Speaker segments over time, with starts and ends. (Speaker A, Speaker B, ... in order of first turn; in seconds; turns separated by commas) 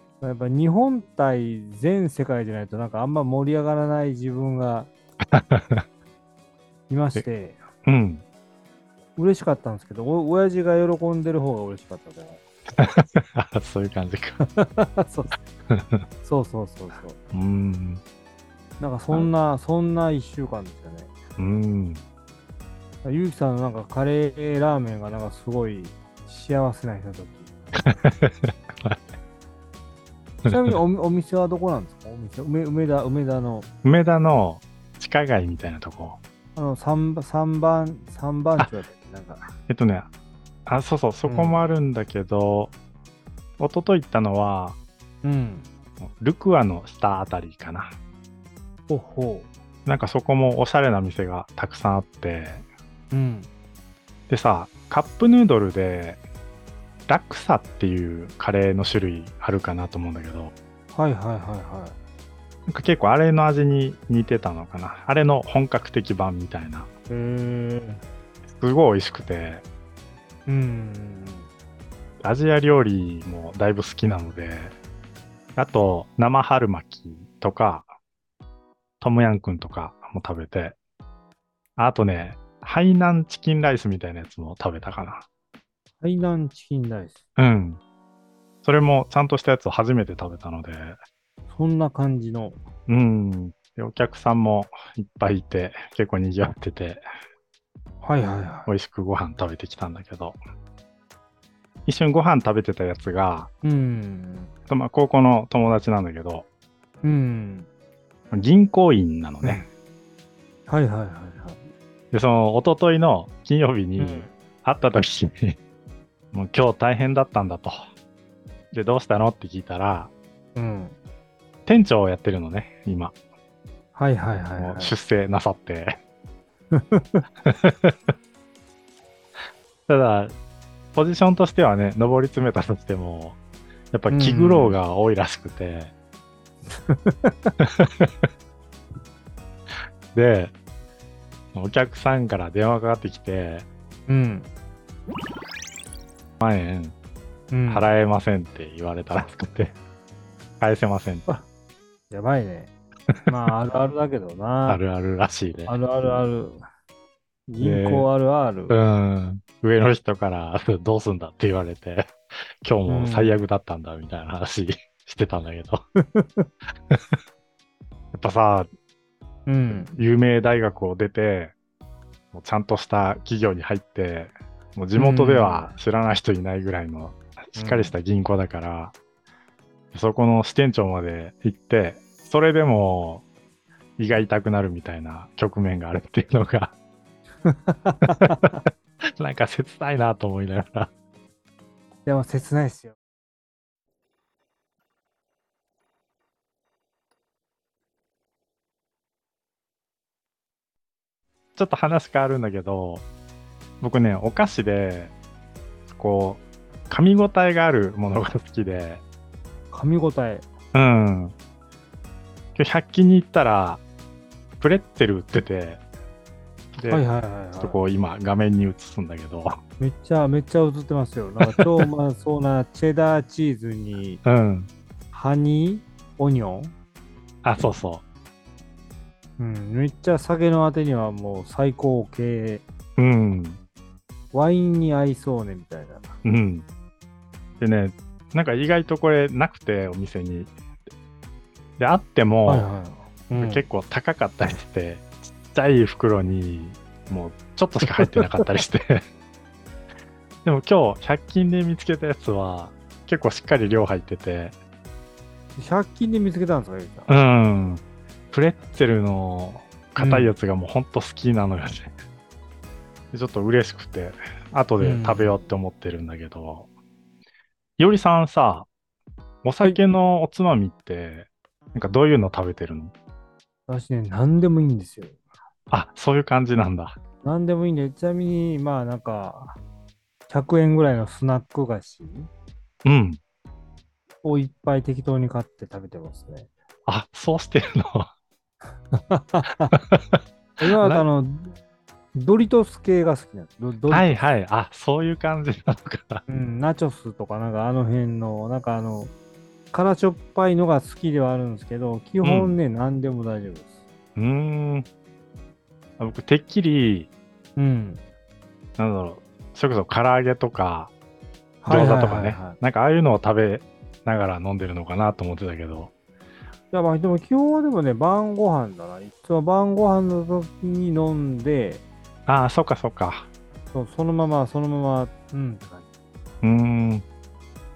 Speaker A: 0.2-4.9, Speaker B: 5.3-5.8, Speaker A: 6.9-7.6, Speaker B: 7.9-8.2, Speaker A: 9.2-12.4, Speaker B: 12.8-14.4, Speaker A: 14.4-15.4, Speaker B: 15.7-16.0, Speaker A: 16.2-17.2, Speaker B: 17.3-18.0, Speaker A: 18.8-21.1, Speaker B: 21.4-22.0, Speaker A: 23.0-27.5, Speaker B: 27.8-29.1, Speaker B: 30.4-30.8, Speaker A: 30.4-33.7, Speaker B: 33.8-36.2, Speaker A: 36.5-39.5, Speaker B: 39.7-40.1, Speaker B: 40.7-42.8, Speaker A: 41.2-41.6, Speaker B: 43.6-44.8, Speaker A: 45.2-45.7, Speaker B: 46.0-48.0, Speaker A: 48.9-49.5, Speaker B: 49.9-52.6, Speaker A: 53.1-53.5, Speaker B: 54.3-56.2, Speaker B: 57.1-60.5, Speaker A: 60.9-62.0, Speaker B: 62.7-66.9, Speaker A: 67.1-68.0, Speaker B: 68.6-69.7, Speaker A: 70.5-71.5, Speaker B: 72.2-74.8, Speaker B: 75.6-77.9, Speaker B: 79.0-80.8, Speaker B: 81.8-85.3, Speaker A: 86.0-87.2, Speaker B: 87.4-87.8, Speaker B: 88.6-91.0, Speaker A: 91.5-92.6, Speaker B: 92.9-97.0, Speaker A: 98.0-98.7, Speaker B: 98.7-100.4, Speaker B: 101.9-103.5, Speaker A: 103.6-104.5, Speaker B: 104.7-106.5, Speaker A: 107.0-107.7, Speaker B: 108.3-109.7, Speaker A: 109.4-109.7, Speaker A: 110.7-111.6, Speaker B: 112.1-115.6, Speaker A: 114.0-114.3, Speaker B: 116.3-117.8, Speaker B: 118.7-120.1, Speaker A: 120.5-121.0, Speaker B: 121.7-123.2, Speaker A: 124.0-125.0, Speaker B: 124.6-126.0, Speaker A: 126.7-127.2, Speaker B: 127.5-128.1, Speaker B: 129.9-130.4, Speaker B: 130.9-133.4, Speaker B: 133.9-135.9, Speaker A: 134.1-134.8, Speaker A: 136.7-137.6, Speaker B: 137.6-138.3, Speaker B: 140.1-140.5, Speaker B: 141.5-143.7, Speaker A: 144.1-144.5, Speaker B: 146.4-146.9, Speaker A: 147.5-147.9, Speaker B: 147.7-149.8, Speaker B: 150.6-151.3, Speaker A: 152.1-152.7, Speaker A: 153.3-154.8, Speaker B: 154.7-155.8, Speaker A: 155.7-156.6, Speaker A: 157.5-158.8, Speaker B: 157.6-158.1, Speaker B: 158.7-165.8, Speaker A: 162.9-163.4, Speaker A: 166.0-166.5, Speaker B: 168.1-168.7, Speaker A: 169.5-169.9, Speaker B: 169.7-171.6, Speaker B: 172.3-178.9, Speaker A: 174.9-175.8, Speaker A: 177.6-178.0, Speaker B: 179.9-183.3, Speaker B: 184.0-186.8, Speaker A: 187.4-188.4, Speaker B: 188.1-188.5, Speaker B: 189.2-190.9, Speaker A: 192.1-192.9, Speaker B: 201.6-203.1, Speaker B: 203.8-205.1, Speaker B: 205.9-209.0, Speaker A: 209.7-210.5, Speaker B: 210.7-211.3, Speaker B: 212.6-213.8, Speaker B: 214.6-215.8, Speaker B: 216.8-217.1, Speaker A: 216.9-217.8, Speaker B: 217.6-219.5, Speaker A: 219.8-224.2, Speaker B: 221.4-221.9, Speaker B: 224.2-224.7, Speaker A: 225.1-226.7, Speaker B: 227.4-228.0, Speaker A: 229.4-232.6, Speaker B: 233.0-233.6, Speaker A: 234.3-236.2, Speaker B: 236.2-236.7, Speaker B: 237.6-240.5, Speaker B: 241.8-242.7, Speaker A: 242.4-243.7, Speaker B: 243.4-249.0, Speaker A: 247.9-248.4, Speaker B: 250.4-254.6, Speaker A: 255.6-257.2, Speaker B: 257.1-261.9, Speaker A: 260.0-260.4, Speaker B: 263.1-266.7, Speaker A: 264.8-265.4, Speaker B: 267.8-268.7, Speaker B: 269.4-272.9, Speaker A: 273.7-275.2, Speaker B: 275.7-277.0, Speaker A: 277.2-279.6, Speaker A: 280.3-282.3, Speaker B: 282.9-283.2, Speaker A: 284.2-286.5, Speaker B: 286.9-288.1, Speaker A: 288.9-289.7, Speaker B: 289.7-291.1, Speaker A: 290.6-291.6, Speaker A: 292.1-294.2, Speaker B: 293.9-296.2, Speaker A: 296.3-299.1, Speaker A: 299.7-303.7, Speaker B: 302.2-302.6, Speaker B: 304.2-304.9, Speaker B: 306.0-307.1, Speaker A: 307.6-308.0, Speaker B: 308.8-310.9, Speaker A: 311.6-312.6, Speaker B: 311.7-315.9, Speaker A: 316.7-321.8, Speaker B: 322.3-323.3, Speaker A: 323.7-325.9, Speaker B: 326.4-327.1